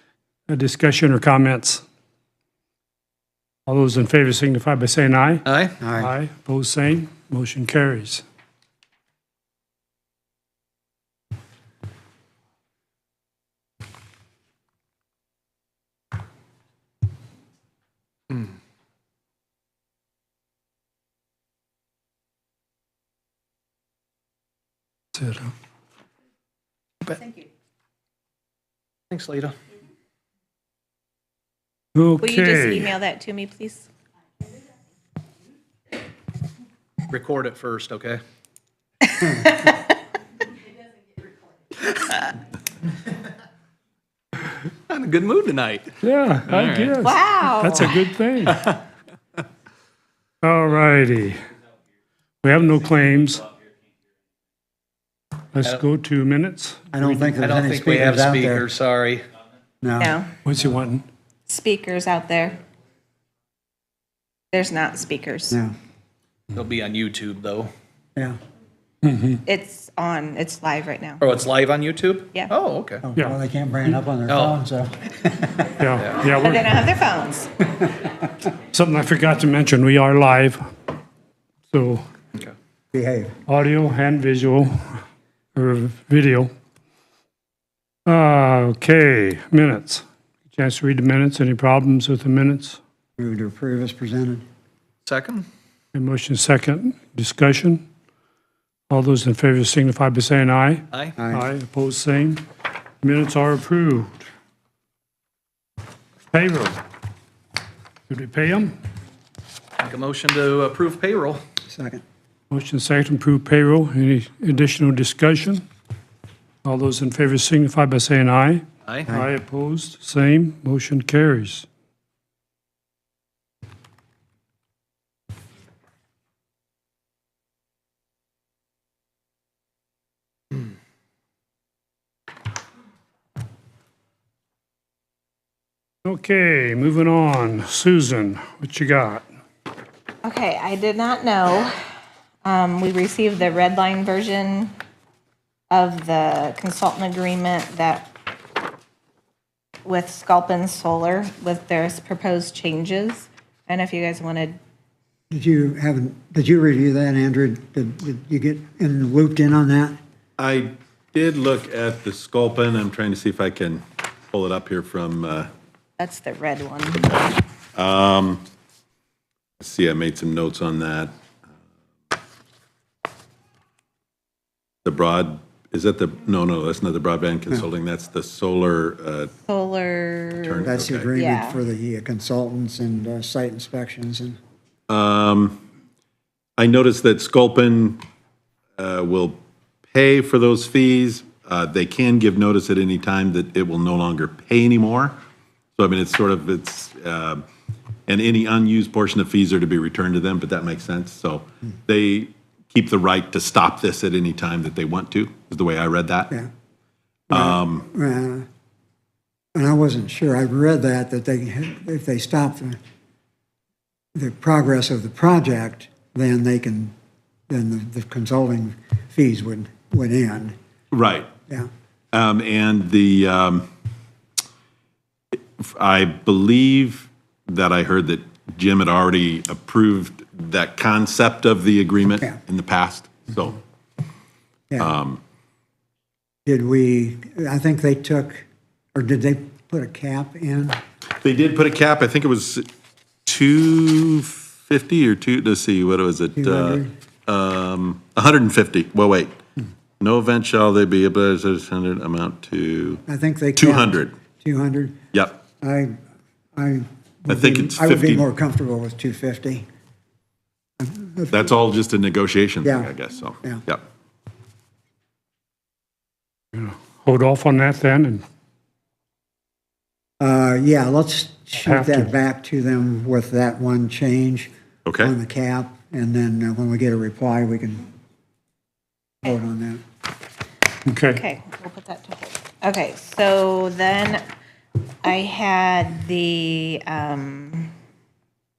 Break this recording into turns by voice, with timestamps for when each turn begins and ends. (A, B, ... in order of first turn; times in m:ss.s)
0:00.5-0:01.8 A
0:03.7-0:08.2 A
0:05.4-0:05.8 B
0:05.8-0:06.1 C
0:25.2-0:25.5 A
0:29.1-0:29.6 B
0:31.9-0:32.9 A
0:32.2-0:33.8 D
0:37.1-0:38.2 B
0:39.1-0:39.9 D
0:44.9-0:46.0 B
0:46.0-0:48.7 A
0:46.5-0:46.9 B
0:47.0-0:47.9 D
0:50.4-0:51.4 A
0:52.4-0:53.5 A
0:55.5-0:56.9 A
0:56.9-0:58.6 C
0:57.0-0:59.3 B
0:59.8-1:00.2 C
1:00.0-1:00.3 D
1:00.4-1:01.0 A
1:01.5-1:02.6 D
1:04.5-1:05.6 D
1:06.5-1:07.7 B
1:09.0-1:09.4 A
1:09.4-1:11.2 D
1:11.2-1:13.0 B
1:13.0-1:15.6 C
1:14.3-1:14.6 B
1:15.8-1:16.7 A
1:16.0-1:16.2 B
1:16.2-1:17.5 D
1:18.6-1:20.6 A
1:21.7-1:22.0 A
1:22.9-1:23.4 C
1:23.5-1:25.0 A
1:25.5-1:26.5 A
1:28.0-1:32.8 A
1:33.2-1:34.4 C
1:35.0-1:35.5 B
1:35.9-1:37.8 A
1:38.9-1:42.4 A
1:41.2-1:41.4 C
1:43.0-1:44.2 A
1:46.3-1:46.8 A
1:48.1-1:48.7 A
1:49.8-1:51.4 B
1:51.7-1:52.0 C
1:52.5-1:55.6 A
1:56.6-2:01.6 A
2:16.0-2:19.2 A
2:20.2-2:21.8 D
2:22.4-2:24.7 D
2:25.7-2:28.1 D
2:29.8-2:34.6 D
2:35.3-2:40.0 C
2:40.4-2:45.5 E
2:46.0-2:47.1 D
2:47.0-2:48.4 E
2:49.6-2:51.1 E
2:54.8-2:59.3 E
2:59.5-3:01.6 D
3:00.4-3:01.1 E
3:00.6-3:04.4 C
3:04.9-3:05.6 E
3:06.6-3:08.0 E
3:08.8-3:09.4 E
3:09.9-3:15.2 E
3:15.8-3:17.4 E
3:18.1-3:26.3 E
3:27.3-3:27.8 E
3:27.3-3:28.4 C
3:29.5-3:32.8 C
3:34.1-3:36.9 C
3:37.5-3:40.5 C
3:40.9-3:41.3 E
3:42.1-3:43.6 E
3:45.3-3:53.6 E
3:54.8-3:55.2 E
3:56.4-4:00.8 C
4:01.2-4:02.7 E
4:03.2-4:09.4 E
4:06.4-4:06.9 C
4:10.0-4:13.0 E
4:13.1-4:15.0 C
4:13.6-4:14.1 E
4:15.1-4:15.4 E
4:15.6-4:16.0 C
4:16.6-4:19.6 C
4:17.3-4:18.2 E
4:20.8-4:21.5 C
4:21.3-4:23.8 E
4:22.6-4:22.9 C
4:26.5-4:28.2 A
4:30.2-4:37.9 C
4:31.6-4:32.1 A
4:34.8-4:35.1 E
4:39.2-4:39.8 C
4:40.8-4:41.2 A
4:41.1-4:44.2 D
4:45.0-4:47.7 D